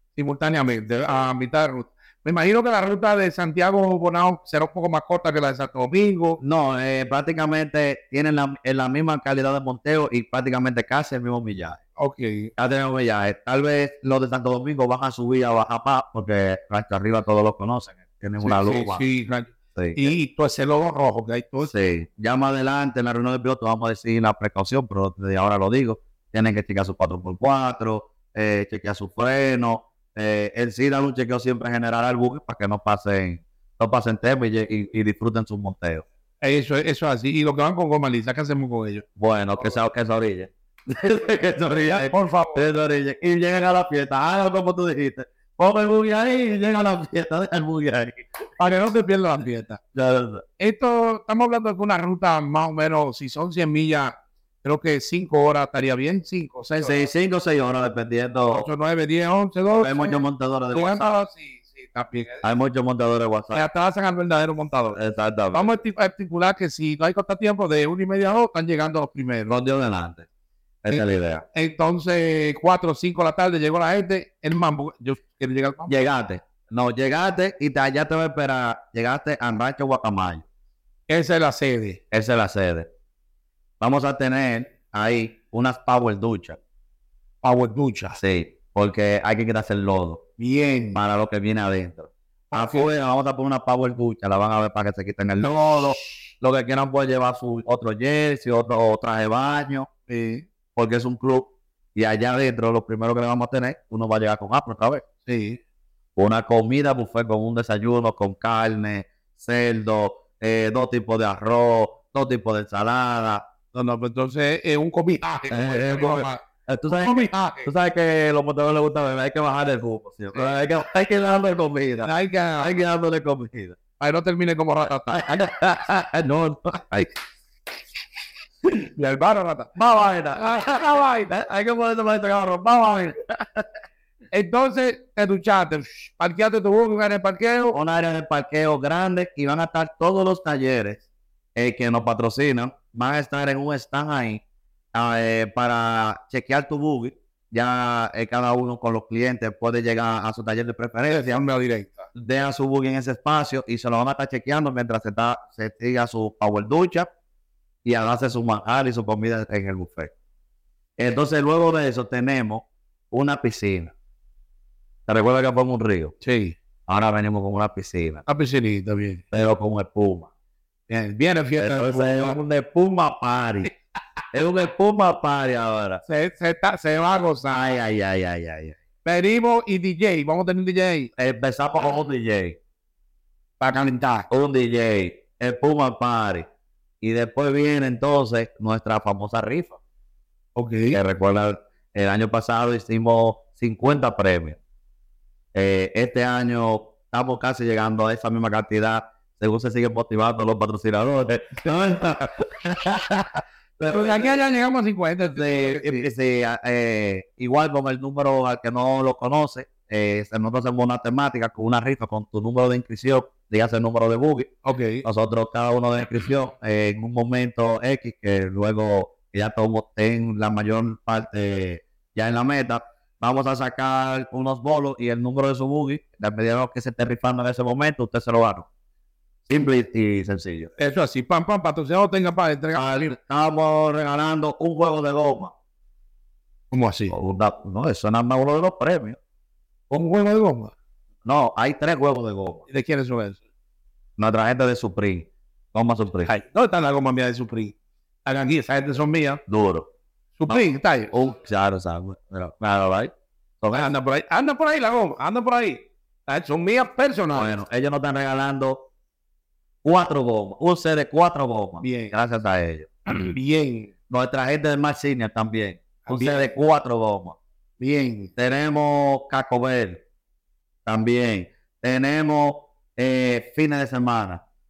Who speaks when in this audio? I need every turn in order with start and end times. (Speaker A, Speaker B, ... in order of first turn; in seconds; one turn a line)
Speaker A: 0.2-6.4
Speaker B: 6.4-11.8
Speaker A: 12.0-12.5
Speaker B: 12.6-19.1
Speaker A: 18.4-21.7
Speaker B: 19.8-20.0
Speaker B: 21.6-36.0
Speaker A: 36.4-39.0
Speaker B: 39.2-48.2
Speaker A: 42.0-42.6
Speaker A: 48.6-49.8
Speaker B: 49.9-50.4
Speaker A: 50.6-54.1
Speaker A: 54.6-57.0
Speaker B: 56.7-58.7
Speaker A: 58.5-60.2
Speaker B: 59.8-61.0
Speaker A: 60.7-62.4
Speaker B: 62.4-63.6
Speaker A: 63.5-65.0
Speaker B: 64.9-65.7
Speaker A: 65.5-69.5
Speaker B: 69.5-70.3
Speaker B: 70.8-71.4
Speaker A: 70.9-75.9
Speaker B: 75.9-80.4
Speaker A: 81.1-82.0
Speaker B: 82.1-82.8
Speaker B: 83.8-86.6
Speaker A: 87.4-88.2
Speaker B: 88.2-90.2
Speaker A: 90.4-91.0
Speaker B: 90.9-99.9
Speaker A: 92.5-92.9
Speaker A: 100.1-100.4
Speaker B: 100.8-105.0
Speaker A: 105.2-105.6
Speaker B: 106.2-113.4
Speaker A: 113.7-117.7
Speaker B: 115.5-123.8
Speaker A: 122.0-122.7
Speaker A: 124.0-125.2
Speaker B: 125.1-127.1
Speaker A: 128.9-129.7
Speaker B: 129.8-133.7
Speaker A: 130.3-131.3
Speaker A: 134.3-137.8
Speaker B: 137.7-141.0
Speaker B: 141.6-144.4
Speaker B: 144.9-151.4
Speaker A: 151.1-152.1
Speaker B: 152.2-157.1
Speaker B: 157.8-160.1
Speaker B: 161.0-163.9
Speaker B: 165.1-166.1
Speaker A: 166.2-166.6
Speaker B: 166.9-168.2
Speaker A: 168.3-169.2
Speaker B: 169.3-170.3
Speaker A: 170.9-172.3
Speaker B: 171.6-173.7
Speaker B: 174.3-176.0
Speaker A: 176.1-177.6
Speaker B: 177.5-178.8
Speaker A: 179.1-181.1
Speaker B: 181.2-182.6
Speaker A: 183.6-184.3
Speaker B: 184.3-186.4
Speaker B: 187.0-189.8
Speaker A: 190.6-191.0
Speaker B: 190.9-194.6
Speaker B: 195.6-204.3
Speaker A: 203.9-206.1
Speaker B: 205.3-214.5
Speaker A: 214.7-215.1
Speaker B: 215.0-228.7
Speaker B: 229.5-230.7
Speaker A: 230.8-233.1
Speaker B: 232.8-235.5
Speaker A: 236.7-237.1
Speaker B: 237.1-239.2
Speaker A: 239.9-240.7
Speaker B: 241.3-242.6
Speaker A: 242.7-243.4
Speaker B: 244.2-246.3
Speaker A: 246.3-247.7
Speaker A: 248.3-249.4
Speaker B: 249.5-249.8
Speaker A: 250.4-251.1
Speaker B: 250.5-253.1
Speaker B: 253.6-253.9
Speaker A: 253.7-257.6
Speaker B: 257.3-258.8
Speaker B: 259.8-262.9
Speaker A: 261.8-262.1
Speaker A: 263.1-263.9
Speaker B: 264.1-267.4
Speaker A: 266.1-266.4
Speaker A: 267.8-268.3
Speaker B: 268.4-270.0
Speaker B: 270.9-274.4